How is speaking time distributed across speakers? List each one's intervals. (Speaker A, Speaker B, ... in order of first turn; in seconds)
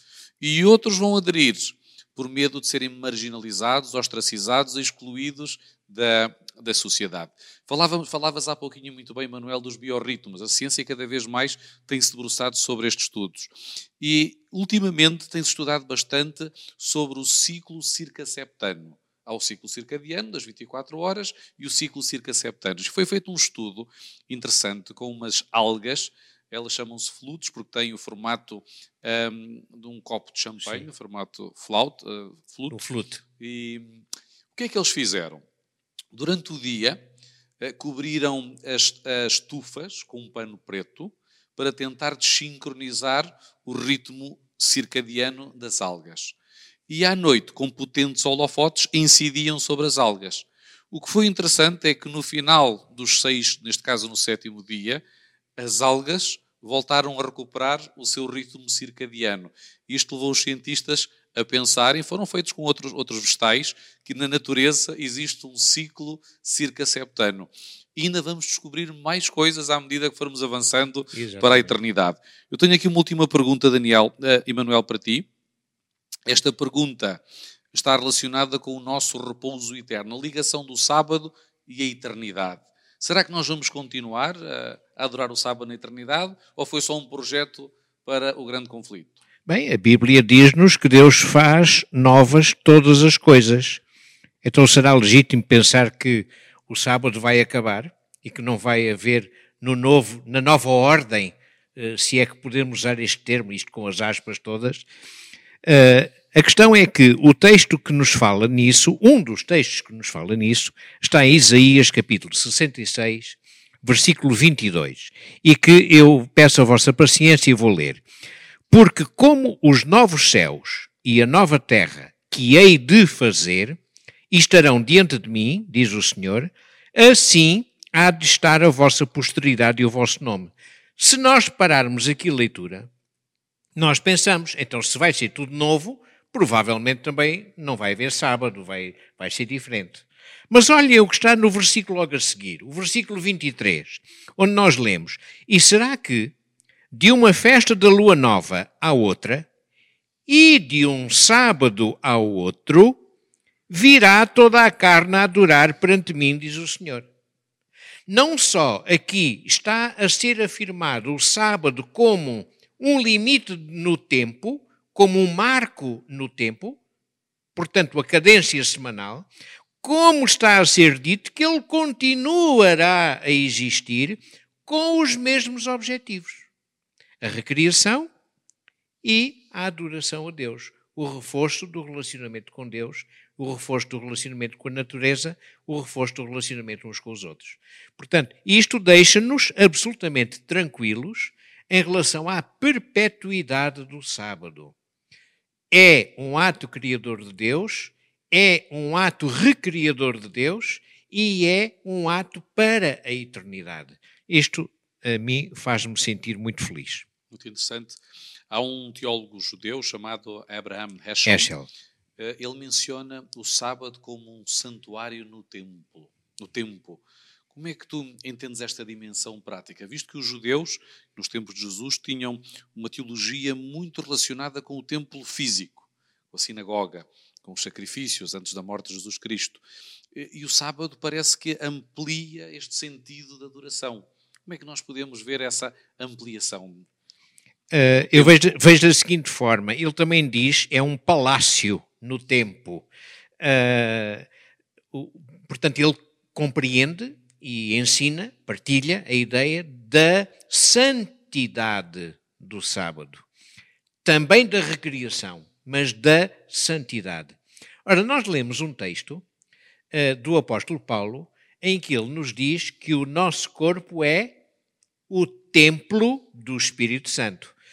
Speaker A: 0.4-32.8, 33.4-34.0, 34.5-35.4, 36.1-37.0, 37.6-46.3, 46.9-55.0, 55.6-75.2, 76.2-77.2, 77.7-89.2, 207.3-208.0, 208.5-211.5, 212.2-217.0, 217.5-229.6, 230.1-236.8, 238.1-238.4
Speaker B: 32.7-33.2, 71.1-71.7, 89.5-93.8, 94.4-104.9, 105.6-118.0, 118.7-123.8, 124.3-132.9, 133.8-146.3, 146.9-149.5, 150.3-153.0, 153.7-157.1, 158.1-166.8, 167.5-169.3, 169.8-176.4, 177.2-178.1, 179.0-194.7, 195.7-207.0, 211.2-211.7, 237.7-242.9, 243.4-244.3, 244.9-253.2, 254.0-259.2, 259.9-264.4, 265.1-267.5